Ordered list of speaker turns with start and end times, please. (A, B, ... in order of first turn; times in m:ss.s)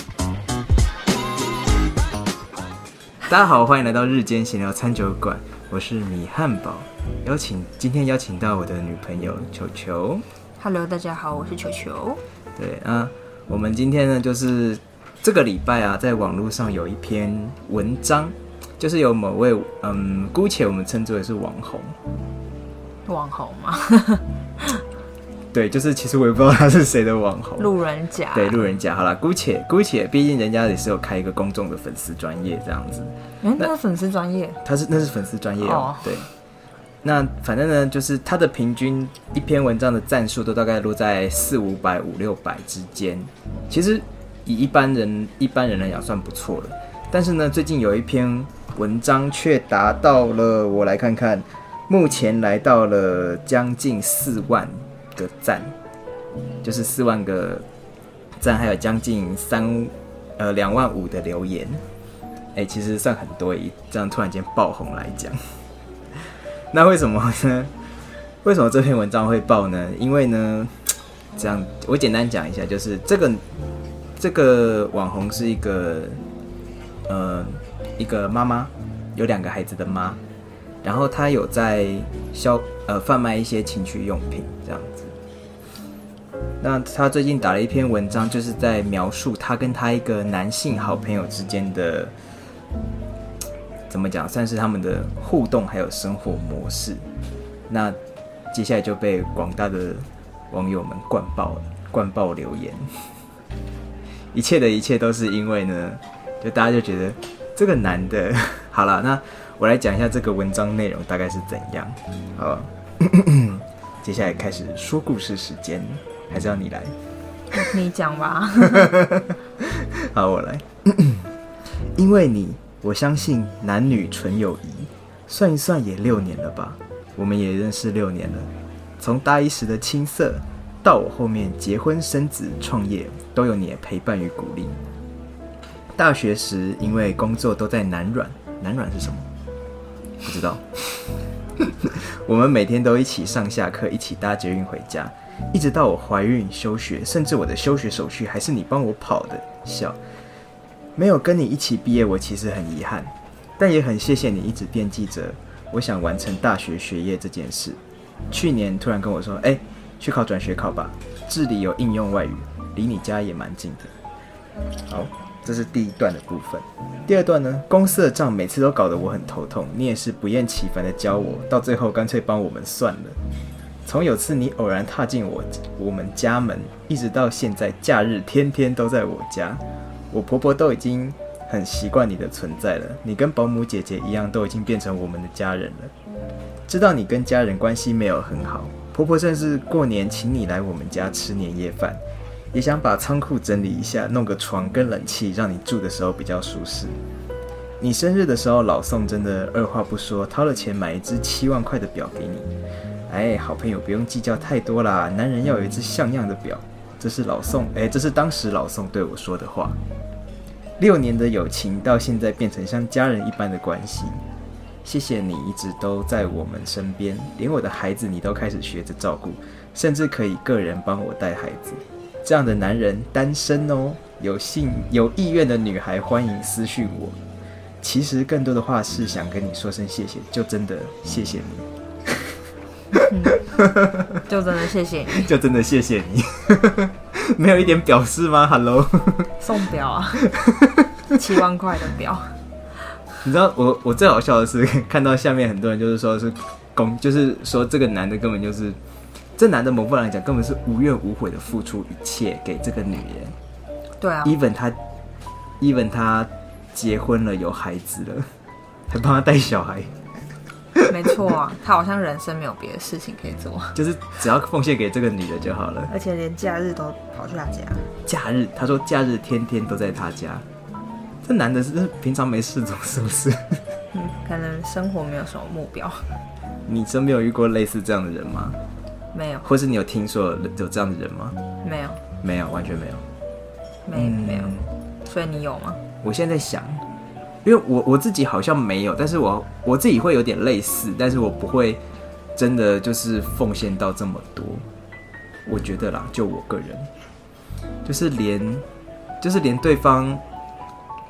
0:03.3-0:10.2 A
0:10.6-0:12.2 B
0:12.6-0:22.0 A
0:23.1-0:24.8 B
0:25.5-0:27.7 A
0:27.6-0:28.5 B
0:28.3-0:33.7 A
0:33.4-0:34.6 B
0:34.6-0:36.3 A
0:35.6-0:36.1 B
0:37.0-0:55.7 A
0:56.6-0:57.6 A
0:58.4-1:01.8 A
1:02.6-1:05.4 A
1:06.2-1:07.7 A
1:08.4-1:13.4 A
1:14.2-1:16.2 A
1:17.1-1:20.2 A
1:20.8-1:25.2 A
1:26.6-1:32.1 A
1:33.9-1:37.0 A
1:37.7-1:38.0 A
1:38.5-1:42.9 A
1:44.3-1:56.9 A
1:57.5-1:59.0 B
1:59.0-2:14.8 A
2:16.0-2:19.3 A
2:20.2-2:30.0 A
2:31.0-2:37.8 A
2:38.3-2:43.9 A
2:44.9-2:53.2 A
2:53.8-3:05.9 A
3:06.7-3:12.0 A
3:12.5-3:17.0 A
3:17.8-3:22.5 A
3:23.1-3:29.8 A
3:30.8-3:34.2 A
3:34.8-3:47.2 A
3:47.8-3:51.7 A
3:53.0-3:54.0 A
3:53.1-3:53.4 B
3:54.2-3:55.3 B
3:55.1-3:59.3 A
3:59.4-4:00.3 B
4:00.4-4:00.7 A
4:01.1-4:02.4 B
4:03.2-4:08.8 A
4:09.4-4:13.4 A
4:14.0-4:14.3 B
4:14.2-4:14.8 A
4:15.6-4:18.3 A
4:18.9-4:19.9 A
4:20.9-4:23.8 B
4:23.8-4:25.9 A
4:25.9-4:27.9 B
4:28.1-4:30.4 A
4:31.2-4:33.6 A
4:33.9-4:36.1 B
4:36.7-4:38.6 A
4:39.1-4:39.5 B
4:39.4-4:41.4 A
4:41.6-4:42.0 B
4:42.2-4:43.0 A
4:43.9-4:45.8 B
4:44.0-4:44.7 A
4:46.0-4:46.8 A
4:47.4-4:51.8 A
4:52.4-4:54.6 A
4:55.5-4:56.9 A
4:57.8-4:58.6 A
4:59.2-5:00.2 A